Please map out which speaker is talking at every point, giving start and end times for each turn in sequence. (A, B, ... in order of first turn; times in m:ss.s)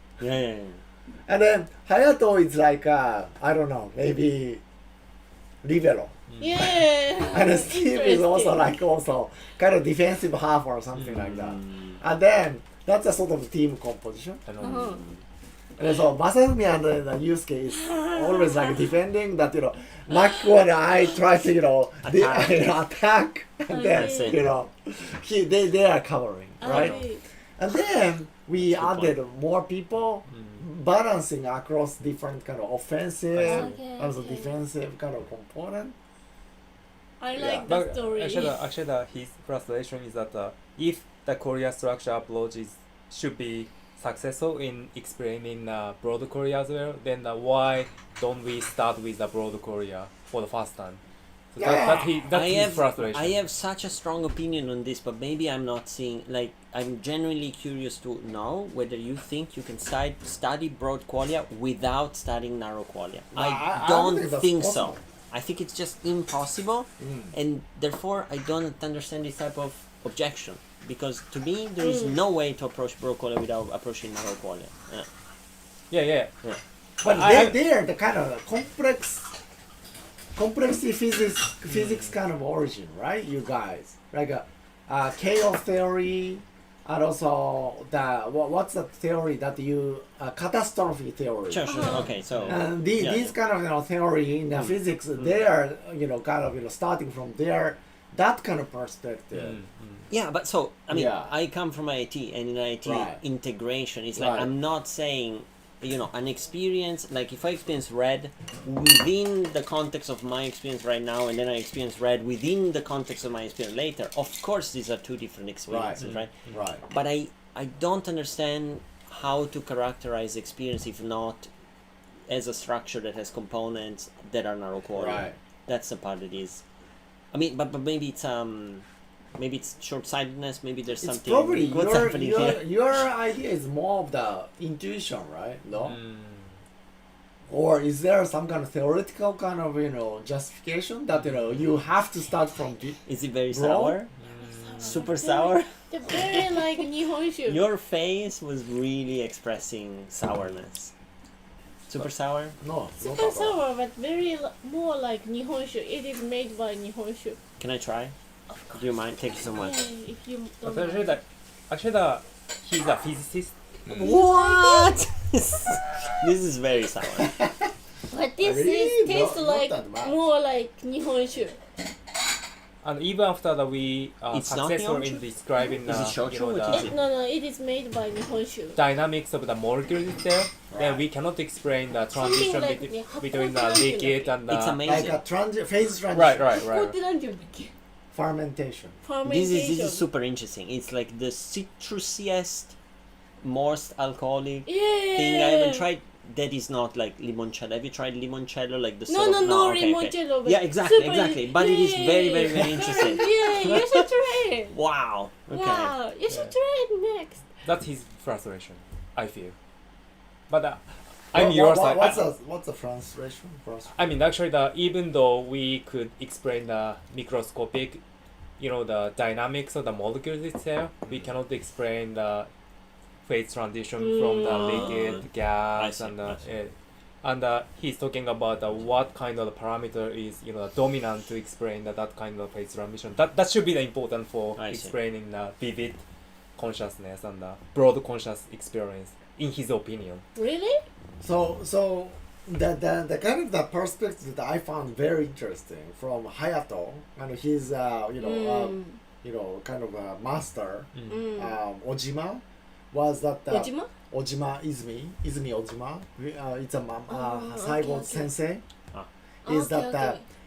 0:00.2-0:00.8 A
0:01.3-0:04.6 B
0:05.6-0:14.4 B
0:06.4-0:08.6 C
0:11.0-0:11.3 D
0:11.3-0:12.0 A
0:14.5-0:15.0 D
0:14.6-0:15.0 C
0:14.9-0:15.2 A
0:15.8-0:27.0 B
0:17.7-0:18.8 C
0:22.0-0:22.7 A
0:23.7-0:24.4 C
0:23.9-0:24.4 A
0:26.6-0:27.2 C
0:26.6-0:27.1 D
0:27.6-0:36.0 B
0:28.6-0:29.1 A
0:30.3-0:30.6 D
0:33.3-0:33.8 D
0:33.5-0:34.5 C
0:37.2-0:38.6 C
0:37.3-0:37.7 B
0:37.7-0:51.0 D
0:51.5-0:53.4 D
0:51.6-0:52.2 B
0:52.3-1:15.1 A
1:03.3-1:05.0 B
1:07.0-1:07.3 B
1:11.8-1:12.2 C
1:15.9-1:16.3 D
1:17.0-1:17.6 D
1:17.0-1:19.3 B
1:20.4-1:39.6 B
1:21.7-1:22.1 D
1:31.5-1:33.4 A
1:31.7-1:32.1 C
1:32.3-1:32.6 D
1:34.5-1:35.4 A
1:39.3-1:40.1 D
1:40.1-1:56.3 A
1:40.9-1:41.3 B
1:42.8-1:43.2 B
1:44.2-1:44.5 B
1:55.7-1:56.8 B
1:56.0-1:56.5 D
1:56.9-2:01.5 A
2:02.3-2:06.6 A
2:04.9-2:05.4 B
2:07.3-2:12.7 A
2:11.0-2:16.0 B
2:15.8-2:16.6 D
2:17.5-2:24.0 B
2:21.2-2:21.6 D
2:23.1-2:24.1 A
2:24.2-2:25.0 D
2:24.4-2:27.6 C
2:24.8-2:26.9 A
2:27.4-2:30.9 A
2:31.9-2:32.6 A
2:32.6-2:33.6 B
2:33.0-2:37.4 C
2:37.6-2:38.1 A
2:38.7-2:39.8 A
2:39.5-2:41.2 C
2:40.6-2:43.5 D
2:43.9-2:47.4 A
2:43.9-2:44.9 C
2:47.2-2:47.5 B
2:48.1-2:51.6 C
2:48.4-2:50.2 B
2:52.8-2:56.9 D
2:54.3-2:55.2 A
2:55.8-2:57.0 A
2:56.7-2:58.8 C
2:58.8-3:04.8 D
3:00.7-3:01.0 B
3:02.2-3:04.3 C
3:04.5-3:05.2 A
3:04.8-3:06.6 B
3:06.1-3:06.9 D
3:06.5-3:07.7 C
3:08.1-3:09.0 B
3:09.0-3:10.0 C
3:09.2-3:12.8 A
3:13.4-3:26.0 A
3:14.7-3:15.9 C
3:19.1-3:24.8 C
3:25.5-3:27.4 C
3:26.3-3:26.5 D
3:27.6-3:29.6 D
3:30.5-3:32.2 D
3:31.3-3:34.1 B
3:33.9-3:38.0 D
3:38.6-3:42.5 D
3:43.2-3:56.0 D
3:44.0-3:45.0 C
3:44.4-3:46.4 A
3:54.6-3:55.0 A
3:56.6-4:00.2 D
4:00.4-4:00.8 C
4:01.2-4:18.6 B
4:08.2-4:09.0 C
4:10.9-4:11.2 D
4:11.1-4:11.6 C
4:13.5-4:13.9 C
4:17.1-4:18.3 C
4:19.4-4:20.2 B
4:19.4-4:20.2 C